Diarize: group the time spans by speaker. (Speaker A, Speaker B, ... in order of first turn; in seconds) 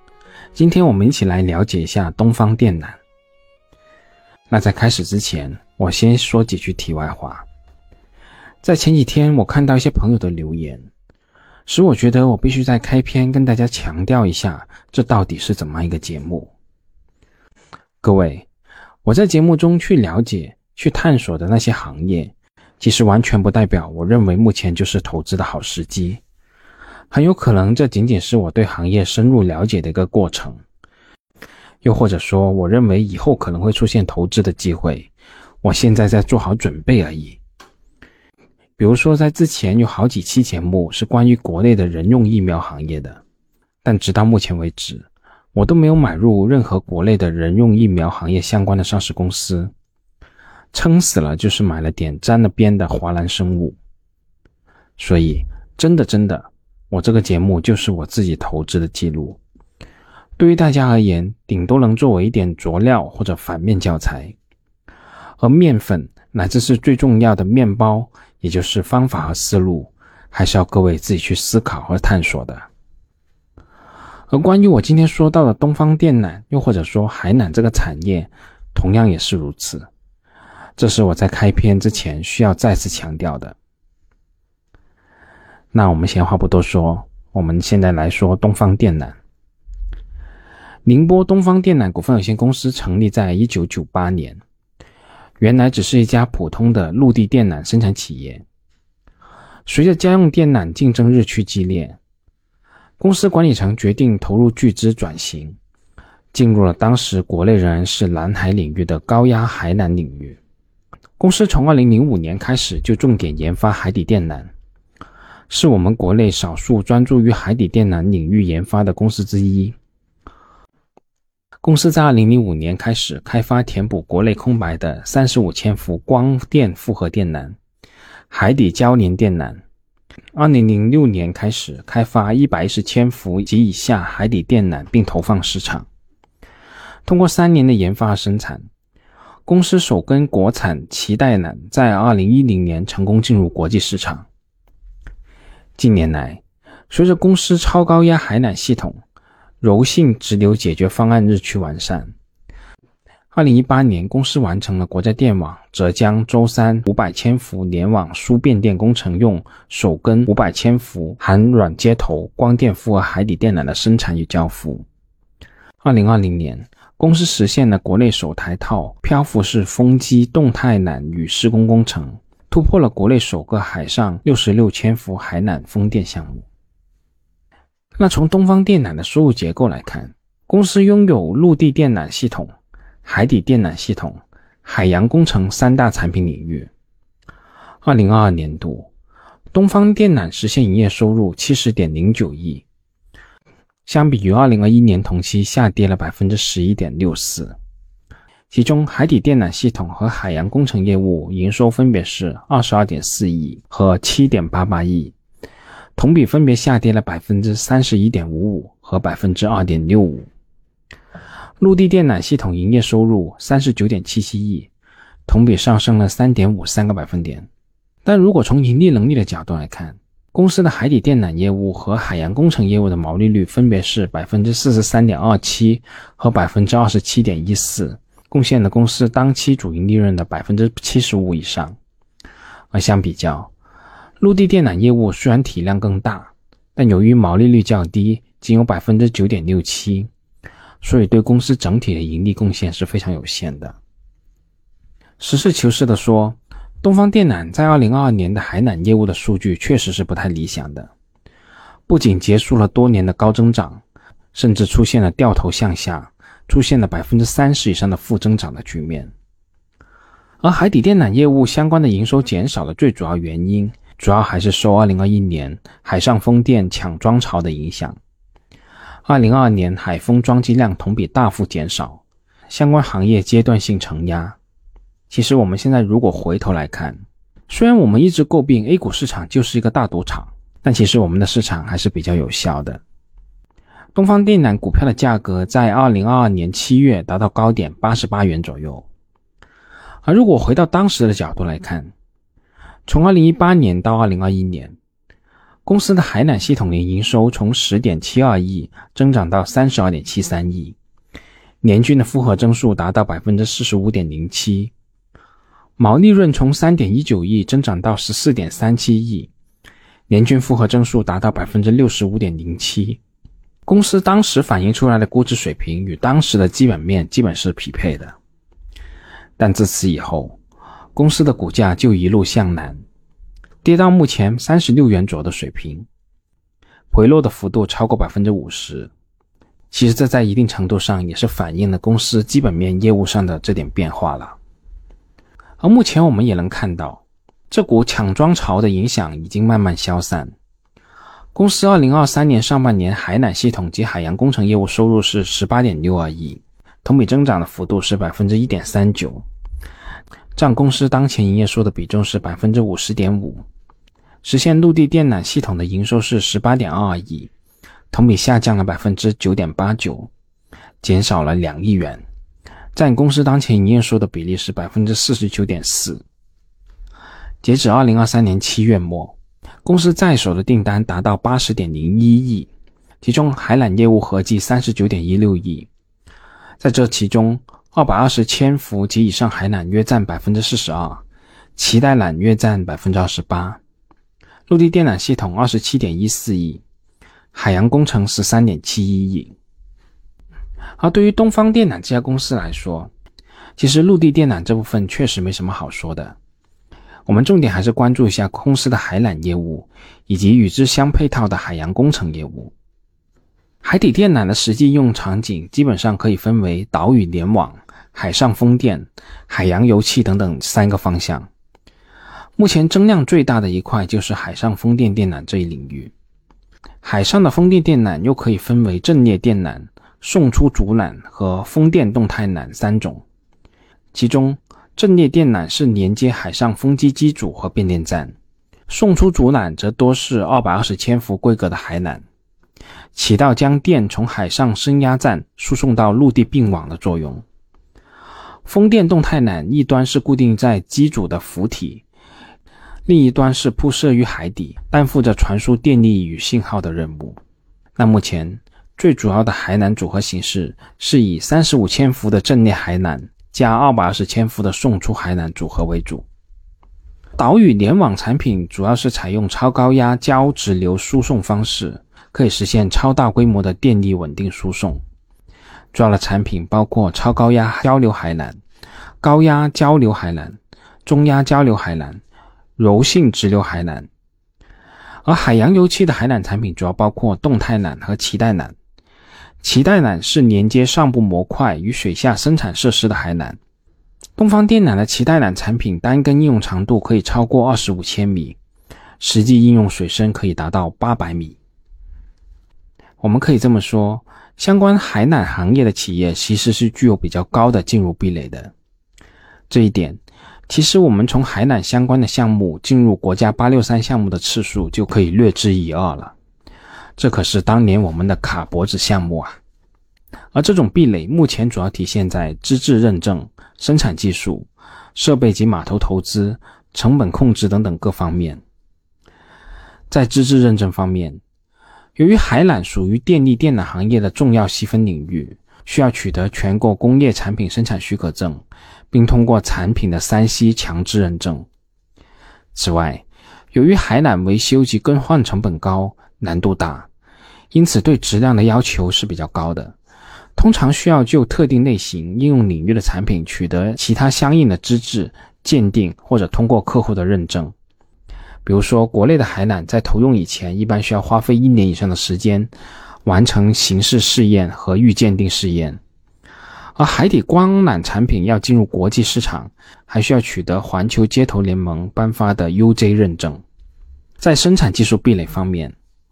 Speaker A: 0.6-3.0, 4.5-7.5, 8.6-10.9, 11.7-16.5, 18.0-18.5, 19.0-26.2, 27.1-30.6, 31.8-35.1, 35.6-37.4, 38.8-43.2, 43.8-49.7, 50.7-53.8, 55.0-59.4, 60.4-64.3, 65.4-72.7, 74.3-79.9, 80.8-83.6, 85.7-89.2, 90.9-94.4, 95.4-98.5, 99.7-102.0, 103.0-105.6, 106.3-110.4, 111.2-114.5, 115.5-119.8, 121.6-127.6, 128.3-129.6, 130.3-135.9, 137.1-138.7, 139.5-144.3, 145.8-149.0, 149.6-152.1, 153.3-164.9, 165.8-176.5, 178.0-182.5, 183.1-186.7, 187.8-188.9, 189.5-192.7, 193.9-197.6, 198.5-205.2, 206.0-210.3, 211.6-214.7, 215.3-217.5, 218.1-231.8, 232.7-233.5, 234.2-240.1, 240.8-243.8, 245.2-250.9, 251.9-253.8, 254.3-259.1, 260.4-268.0, 269.1-274.4, 275.1-282.8, 283.9-288.9, 290.1-291.9, 292.9-294.8, 295.7-300.8, 301.6-304.7, 305.8-309.3, 310.1-313.0, 313.7-318.2, 319.4-320.4, 321.0-322.8, 323.6-325.9, 326.9-328.9, 329.7-334.4, 335.6-340.3, 341.4-349.2, 350.4-353.4, 354.2-357.3, 357.9-360.1, 360.8-362.0, 362.8-366.0, 367.4-372.5, 373.0-375.7, 376.6-381.0, 381.6-383.6, 384.5-386.6, 387.3-389.4, 390.8-392.9, 393.6-396.2, 397.1-402.5, 403.6-411.3, 412.4-415.9, 416.8-423.0, 423.9-428.1, 428.7-432.0, 432.9-437.2, 438.5-441.9, 442.9-447.2, 447.8-456.1, 457.2-464.8, 465.7-468.4, 469.0-472.0, 472.6-473.9, 475.1-478.6, 479.4-483.4, 484.2-488.4, 489.0-491.4, 493.0-498.5, 499.5-506.1, 507.0-509.4, 510.3-518.4, 519.9-521.2, 522.0-531.5, 532.5-536.9, 537.5-539.8, 540.4-547.5, 548.5-552.5, 553.0-555.8, 556.8-563.4, 564.2-565.8